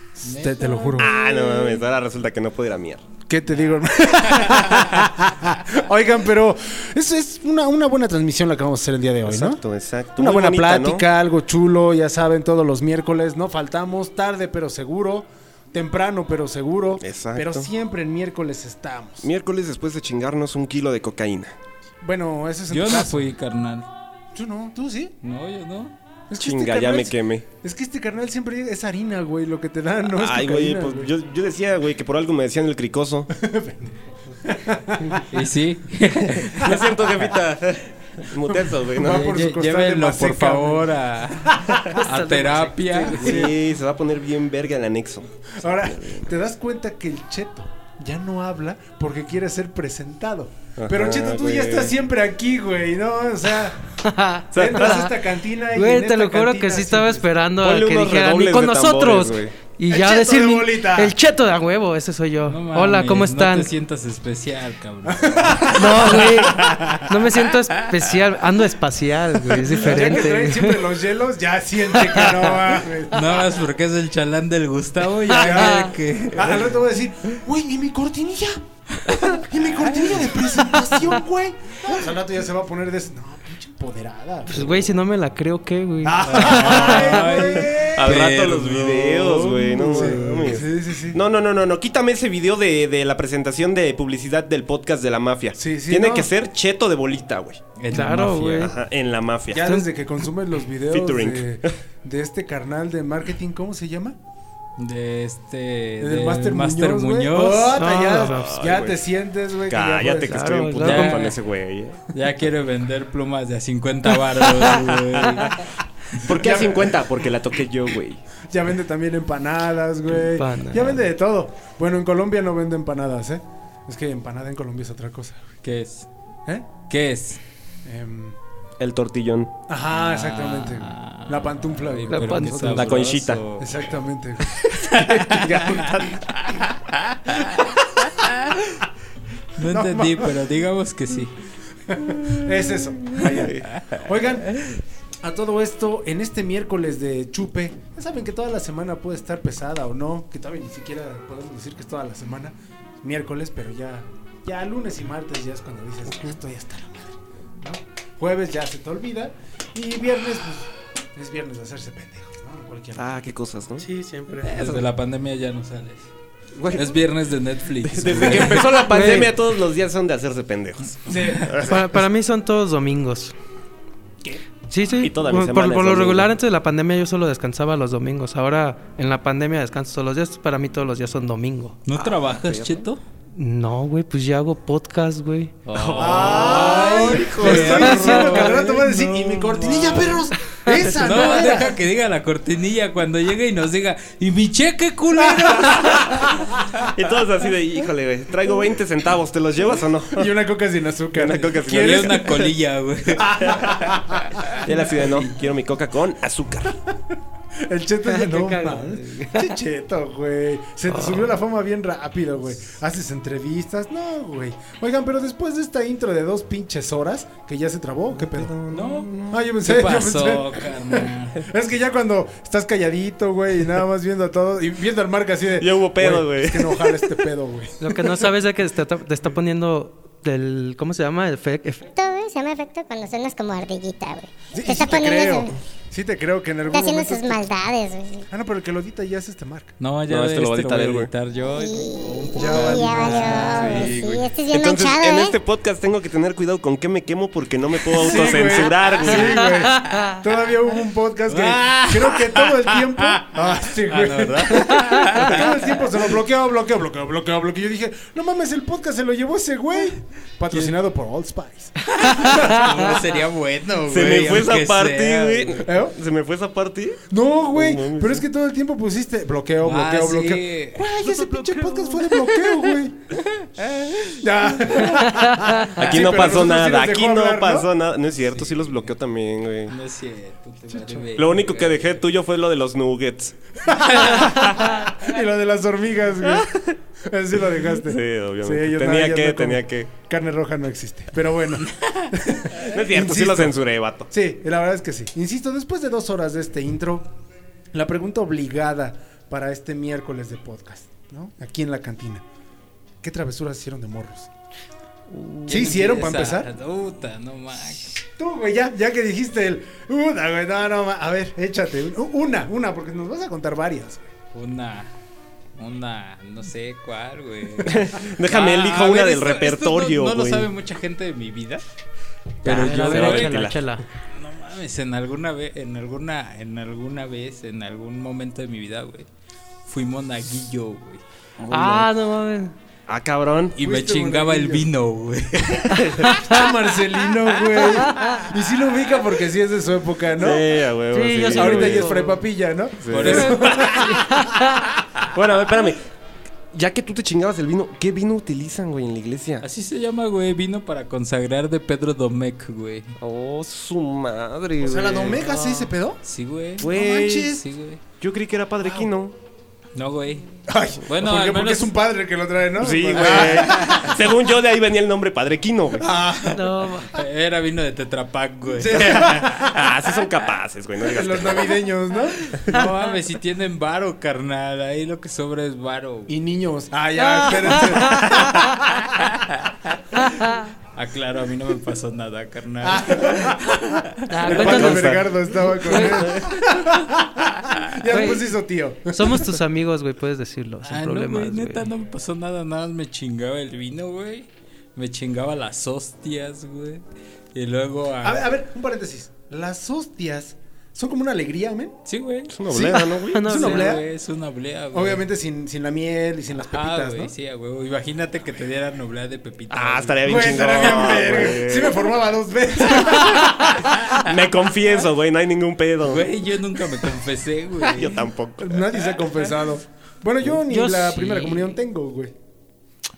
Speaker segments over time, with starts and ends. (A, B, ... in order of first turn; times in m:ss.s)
0:00.2-0:01.2 A
0:00.2-0:01.1 B
0:01.0-0:03.0 C
0:03.3-0:09.6 A
0:04.4-0:04.8 B
0:09.2-0:11.0 C
0:10.2-0:19.3 A
0:17.0-0:17.7 C
0:19.2-0:21.6 C
0:22.0-0:23.3 A
0:22.7-0:23.8 B
0:24.3-0:25.2 A
0:25.2-0:25.9 B
0:26.3-0:31.1 A
0:26.3-0:27.5 C
0:30.1-0:33.3 C
0:33.3-0:35.3 A
0:35.3-0:37.1 B
0:36.3-0:39.2 C
0:39.0-0:42.0 A
0:39.0-0:43.5 B
0:41.9-0:43.2 D
0:43.1-0:43.6 A
0:43.2-0:46.3 C
0:45.6-0:53.9 A
0:50.8-0:51.9 C
0:54.0-0:55.1 D
0:54.5-0:57.3 A
0:54.5-0:55.0 C
0:55.7-1:03.7 D
0:57.6-0:59.5 C
0:59.9-1:01.2 A
1:02.5-1:07.1 B
1:05.0-1:06.8 A
1:05.7-1:10.9 D
1:09.7-1:13.5 A
1:11.9-1:12.6 D
1:13.1-1:16.7 B
1:15.3-1:18.6 A
1:15.4-1:15.9 D
1:19.2-1:24.8 A
1:24.5-1:27.2 D
1:26.0-1:28.3 A
1:26.2-1:30.6 B
1:27.4-1:37.6 C
1:29.9-1:31.2 A
1:35.6-1:36.3 A
1:37.8-1:38.7 B
1:37.9-1:38.7 D
1:38.6-1:39.8 C
1:39.5-1:44.2 A
1:39.6-1:39.9 D
1:40.9-1:41.8 C
1:44.8-1:47.8 B
1:46.0-1:50.6 A
1:47.7-1:48.5 D
1:48.2-1:49.0 C
1:49.7-1:52.1 C
1:50.3-1:51.3 D
1:50.8-1:51.4 B
1:52.1-1:55.7 B
1:56.2-1:58.2 C
1:56.3-1:57.1 A
1:58.5-2:05.5 A
2:00.1-2:01.0 D
2:05.6-2:06.1 B
2:06.5-2:06.8 A
2:06.9-2:07.4 B
2:07.8-2:08.4 A
2:08.8-2:09.6 C
2:09.7-2:13.0 A
2:09.9-2:13.8 B
2:12.1-2:12.7 D
2:12.7-2:13.4 C
2:13.6-2:16.1 A
2:14.9-2:15.8 B
2:15.4-2:16.2 C
2:16.8-2:18.8 B
2:19.6-2:21.3 B
2:19.6-2:20.3 A
2:21.9-2:24.6 A
2:23.3-2:23.7 C
2:25.2-2:43.2 A
2:43.0-2:43.8 C
2:43.8-2:44.6 D
2:44.4-2:46.1 B
2:46.6-2:46.9 C
2:46.7-2:48.8 B
2:47.9-2:51.8 C
2:48.7-2:49.3 D
2:51.1-2:51.8 A
2:51.6-2:53.3 D
2:54.7-3:01.8 D
2:54.9-2:56.3 C
3:01.8-3:03.0 B
3:01.9-3:02.8 C
3:03.3-3:05.5 D
3:05.7-3:10.3 B
3:05.7-3:08.2 C
3:05.9-3:11.8 A
3:08.0-3:08.4 D
3:10.9-3:16.4 B
3:15.2-3:16.3 A
3:16.9-3:20.3 C
3:20.1-3:22.6 A
3:21.1-3:22.3 C
3:21.7-3:23.4 B
3:23.2-3:24.6 A
3:24.4-3:25.3 B
3:24.6-3:26.8 C
3:27.5-3:38.6 A
3:28.0-3:29.5 D
3:30.9-3:31.3 D
3:38.2-3:39.4 C
3:38.7-3:41.4 B
3:39.3-3:48.0 A
3:45.6-3:47.1 C
3:47.8-3:51.9 D
3:52.0-3:55.5 E
3:54.5-3:57.5 A
3:56.7-3:58.3 E
3:58.3-3:59.8 A
3:59.8-4:04.2 B
4:00.1-4:01.1 C
4:01.5-4:05.4 E
4:02.4-4:03.8 A
4:03.4-4:09.5 C
4:07.9-4:23.1 A
4:08.0-4:08.3 B
4:09.0-4:10.0 B
4:11.3-4:15.9 B
4:22.0-4:25.7 B
4:22.2-4:22.6 D
4:23.9-4:27.0 C
4:25.6-4:25.9 A
4:27.1-4:33.0 A
4:27.5-4:28.2 C
4:29.6-4:31.0 B
4:33.3-4:34.8 B
4:34.2-4:37.7 A
4:35.3-4:35.8 D
4:35.8-4:39.7 C
4:38.2-4:38.9 B
4:39.7-4:42.0 B
4:40.7-4:41.1 A
4:41.2-4:43.4 C
4:43.6-4:57.1 A
4:44.0-4:44.2 B
4:46.2-4:46.7 C
4:47.8-4:49.9 C
4:52.7-4:54.1 C
4:57.7-5:02.2 A
5:03.0-5:04.3 A
5:05.1-5:05.8 C
5:05.5-5:06.5 A
5:05.5-5:08.0 B
5:08.2-5:14.1 A
5:14.3-5:14.9 B
5:15.6-5:21.6 B
5:17.6-5:20.5 C
5:22.4-5:23.4 B
5:22.4-5:23.8 D
5:22.4-5:23.6 C
5:24.1-5:29.1 B
5:29.6-5:31.0 B
5:31.4-5:31.9 C
5:31.5-5:32.5 D
5:32.9-5:33.6 C
5:33.6-5:36.1 B
5:33.6-5:34.7 A
5:36.0-5:36.4 D
5:36.1-5:40.4 A
5:37.8-5:38.2 D
5:40.2-5:41.9 C
5:40.9-5:42.2 D
5:41.2-5:44.2 A
5:42.8-5:43.4 C
5:42.9-5:44.0 B
5:43.9-5:44.6 D
5:45.1-5:45.8 C
5:46.5-5:49.4 C
5:49.4-5:52.9 B
5:53.0-5:55.7 C
5:54.6-5:56.0 A
5:56.0-5:57.8 B
5:56.6-5:57.4 A
5:56.6-5:57.3 C
5:58.0-5:59.1 C
5:58.6-5:58.9 A
5:59.8-6:00.3 B
6:00.5-6:04.0 A
6:00.9-6:01.7 B
6:02.6-6:05.9 C
6:03.0-6:03.8 B
6:05.8-6:06.5 A
6:06.3-6:07.0 D
6:06.9-6:09.4 B
6:08.5-6:09.7 A
6:08.7-6:11.6 C
6:10.8-6:12.7 A
6:12.3-6:16.1 B
6:16.1-6:18.8 A
6:17.0-6:18.2 D
6:18.9-6:20.1 B
6:20.0-6:20.4 D
6:20.7-6:23.8 B
6:22.6-6:29.4 A
6:24.1-6:25.0 D
6:24.3-6:26.3 C
6:25.6-6:25.9 D
6:27.9-6:31.7 D
6:30.6-6:36.8 B
6:37.3-6:38.3 B
6:38.0-6:41.8 A
6:41.8-6:42.3 B
6:42.3-6:43.3 C
6:42.5-6:43.8 D
6:42.6-6:43.8 A
6:43.3-6:45.0 B
6:44.7-6:47.1 A
6:46.5-6:51.3 B
6:49.5-6:51.8 C
6:50.0-6:53.9 A
6:53.5-6:53.9 B
6:53.9-6:56.1 C
6:55.8-6:58.1 B
6:57.6-6:58.9 C
6:58.4-7:02.1 A
7:00.5-7:01.6 D